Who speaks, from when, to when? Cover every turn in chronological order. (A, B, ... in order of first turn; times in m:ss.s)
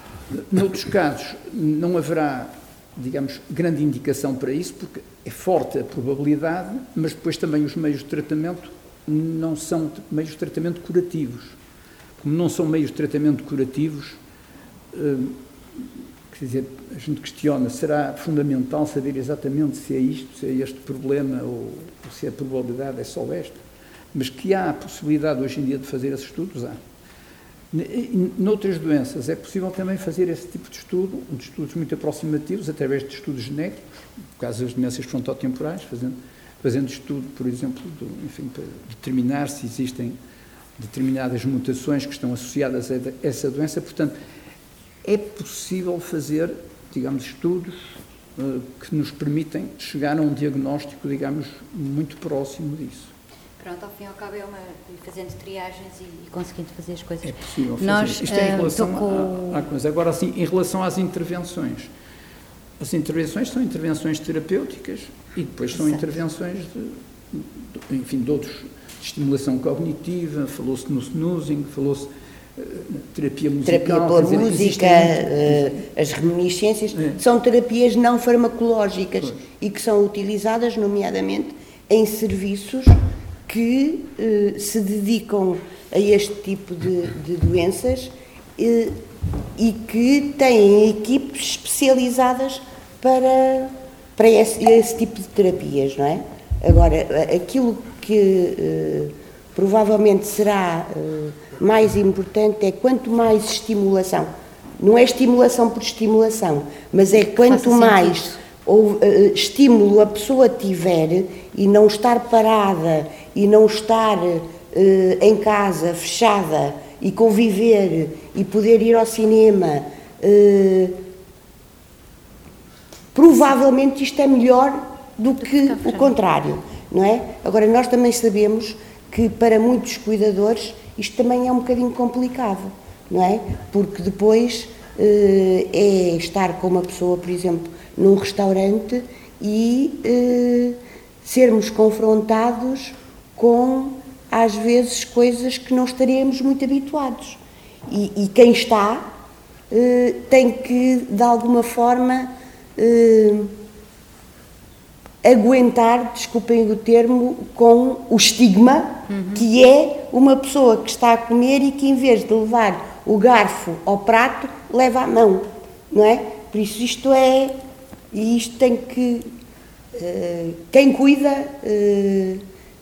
0:00.3-0:11.6 A
0:12.2-0:14.2 A
0:14.9-0:23.6 A
0:24.1-0:26.8 A
0:27.7-0:40.2 A
0:40.8-0:44.2 A
0:45.0-0:53.1 A
0:53.6-0:59.6 B
0:57.2-1:01.9 A
1:02.8-1:15.8 A
1:05.7-1:06.1 B
1:13.7-1:29.0 C
1:16.9-1:17.2 A
1:29.6-2:01.0 C
1:47.2-1:48.4 B
2:03.1-2:29.1 C
2:29.7-2:33.5 C
2:35.2-2:47.6 C
2:39.1-2:39.4 B
2:48.1-2:49.3 C
2:49.9-2:52.4 C